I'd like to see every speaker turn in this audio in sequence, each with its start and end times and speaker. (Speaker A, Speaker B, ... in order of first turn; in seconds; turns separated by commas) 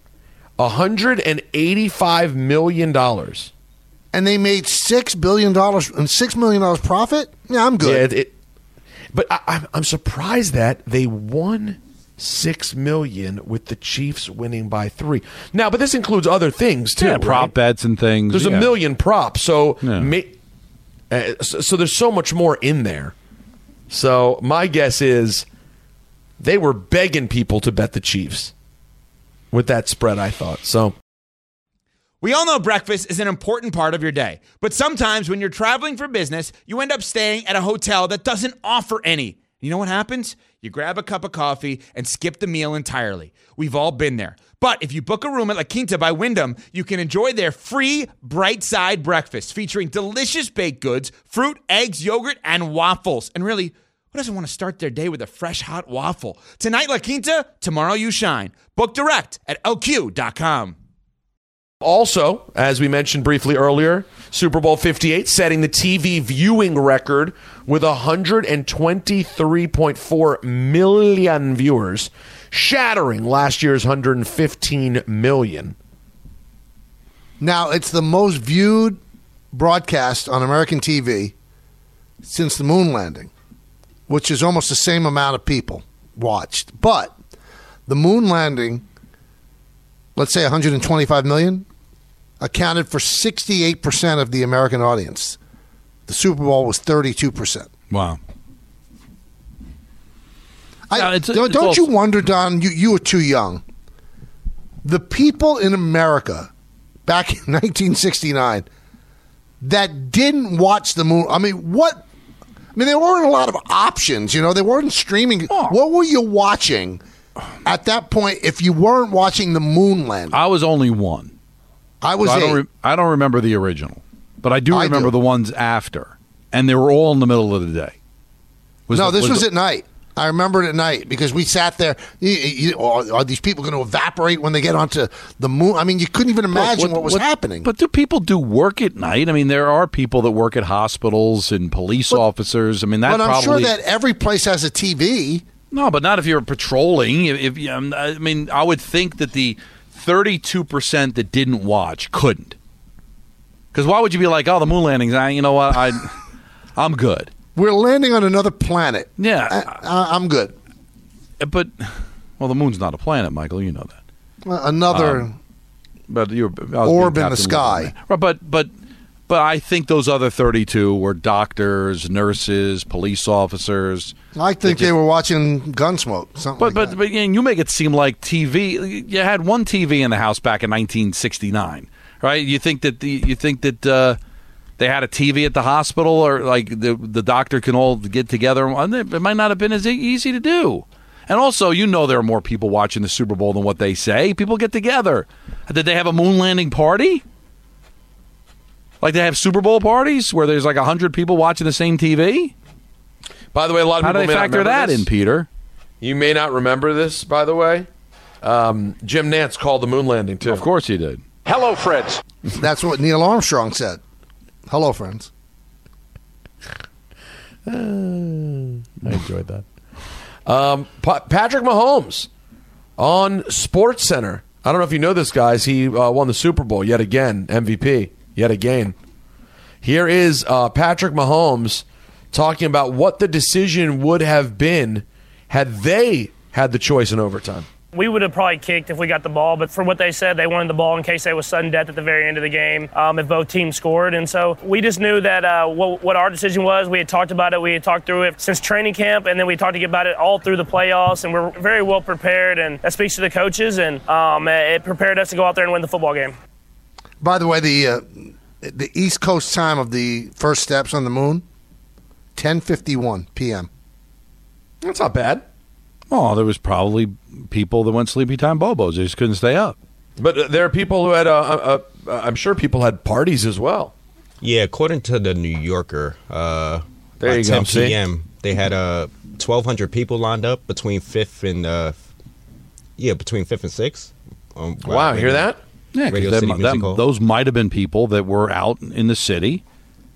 Speaker A: 0.6-3.5, Speaker B: 4.1-8.1, Speaker A: 7.8-8.3, Speaker A: 9.1-17.6, Speaker C: 17.0-18.7, Speaker A: 18.3-20.3, Speaker C: 19.8-20.1, Speaker A: 21.1-23.1, Speaker A: 23.9-25.4, Speaker A: 26.4-28.5, Speaker A: 29.5-30.9, Speaker D: 32.2-60.8, Speaker A: 61.8-75.8, Speaker B: 77.4-79.0, Speaker B: 79.5-81.3, Speaker B: 82.2-83.3, Speaker B: 84.1-87.1, Speaker B: 87.9-88.8, Speaker B: 90.2-91.7, Speaker B: 92.4-95.4, Speaker B: 96.1-97.7, Speaker C: 97.9-98.2, Speaker B: 100.9-103.6, Speaker C: 100.9-101.9, Speaker B: 104.8-106.5, Speaker B: 107.1-108.7, Speaker B: 109.6-112.0, Speaker B: 112.8-117.0, Speaker C: 115.5-115.8, Speaker B: 117.6-120.4, Speaker C: 120.3-121.3, Speaker B: 122.0-122.6, Speaker C: 122.2-128.0, Speaker B: 124.7-125.1, Speaker C: 128.9-129.5, Speaker B: 128.9-137.7, Speaker C: 136.5-143.7, Speaker B: 143.1-145.4, Speaker C: 145.7-152.6, Speaker C: 153.7-156.2, Speaker C: 156.8-157.3, Speaker B: 157.6-160.6, Speaker C: 159.2-159.8, Speaker C: 161.4-164.0, Speaker B: 164.4-165.4, Speaker C: 164.9-165.3, Speaker C: 166.1-168.7, Speaker B: 166.8-167.9, Speaker C: 169.3-174.9, Speaker B: 174.3-177.0, Speaker C: 176.6-184.2, Speaker C: 184.8-197.2, Speaker C: 199.0-202.5, Speaker A: 203.5-205.1, Speaker C: 204.0-205.5, Speaker A: 206.0-207.9, Speaker A: 208.4-210.6, Speaker C: 210.5-211.2, Speaker B: 212.6-214.0, Speaker B: 214.7-215.3, Speaker A: 217.7-219.6, Speaker A: 220.5-222.3, Speaker A: 223.0-228.9, Speaker A: 229.8-237.7, Speaker E: 237.9-256.4, Speaker B: 257.2-261.4, Speaker B: 262.4-263.7, Speaker A: 264.8-265.4, Speaker C: 266.1-269.8, Speaker A: 270.2-273.9, Speaker F: 274.4-282.0, Speaker A: 277.2-278.0, Speaker F: 283.0-285.5, Speaker A: 284.8-285.6, Speaker C: 285.9-289.6, Speaker F: 286.1-287.0